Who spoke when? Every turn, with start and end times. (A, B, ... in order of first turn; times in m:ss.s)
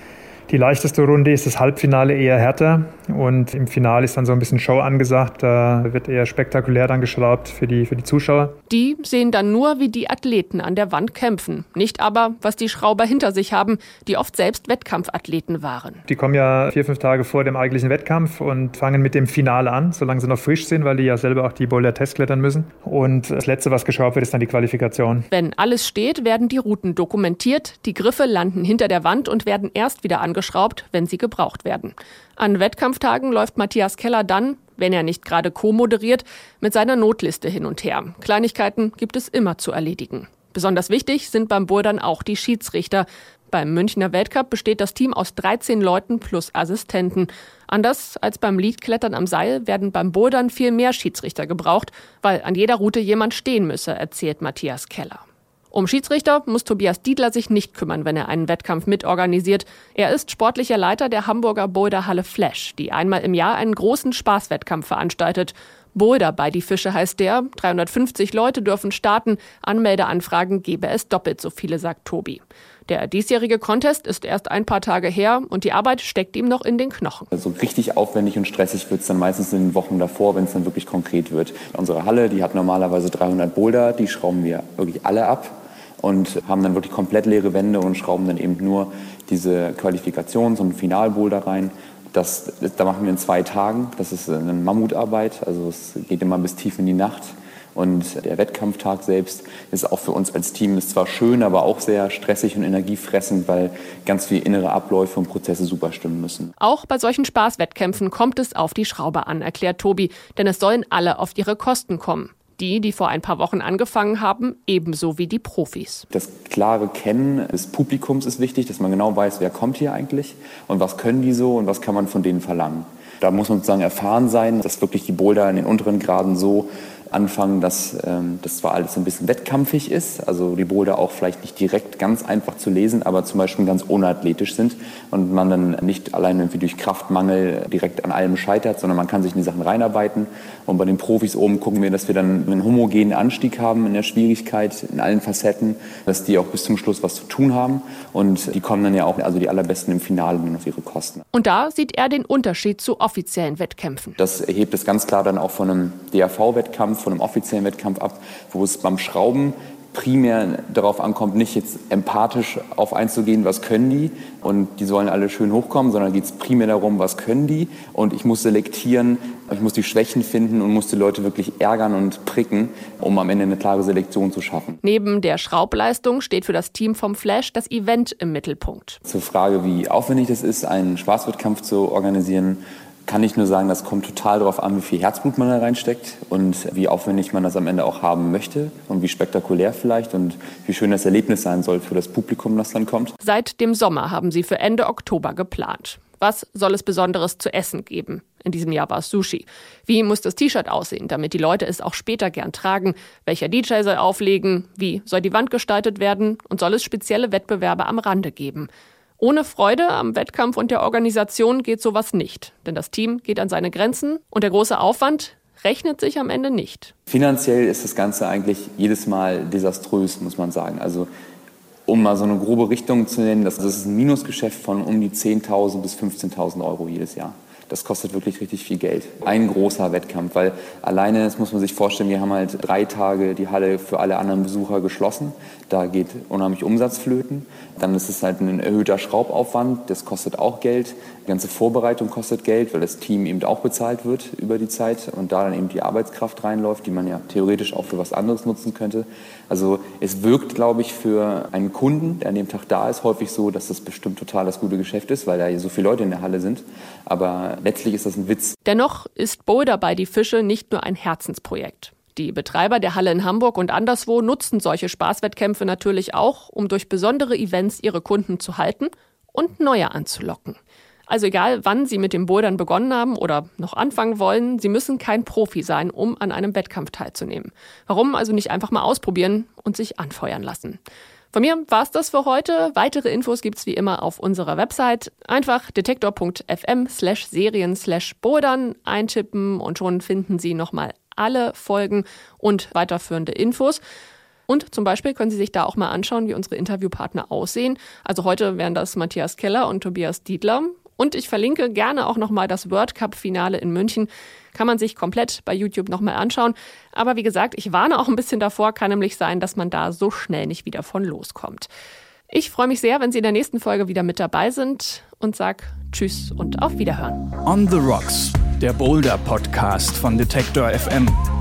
0:00.5-0:08.6 A
0:08.7-0:16.0 B
0:16.1-0:25.3 A
0:25.3-1:17.3 B
1:17.3-1:46.5 C
1:46.6-1:56.1 B
1:56.1-2:31.2 C
2:31.3-2:34.2 B
2:34.2-2:54.8 C
2:54.8-2:59.0 B
2:59.1-3:13.2 C
3:13.2-3:28.7 B
3:29.2-3:36.9 B
3:37.1-3:41.1 C
3:41.9-4:18.6 C
4:18.6-4:40.8 B
4:41.3-4:53.8 B
4:54.5-5:11.7 B
5:12.3-5:17.3 B
5:17.4-5:21.2 D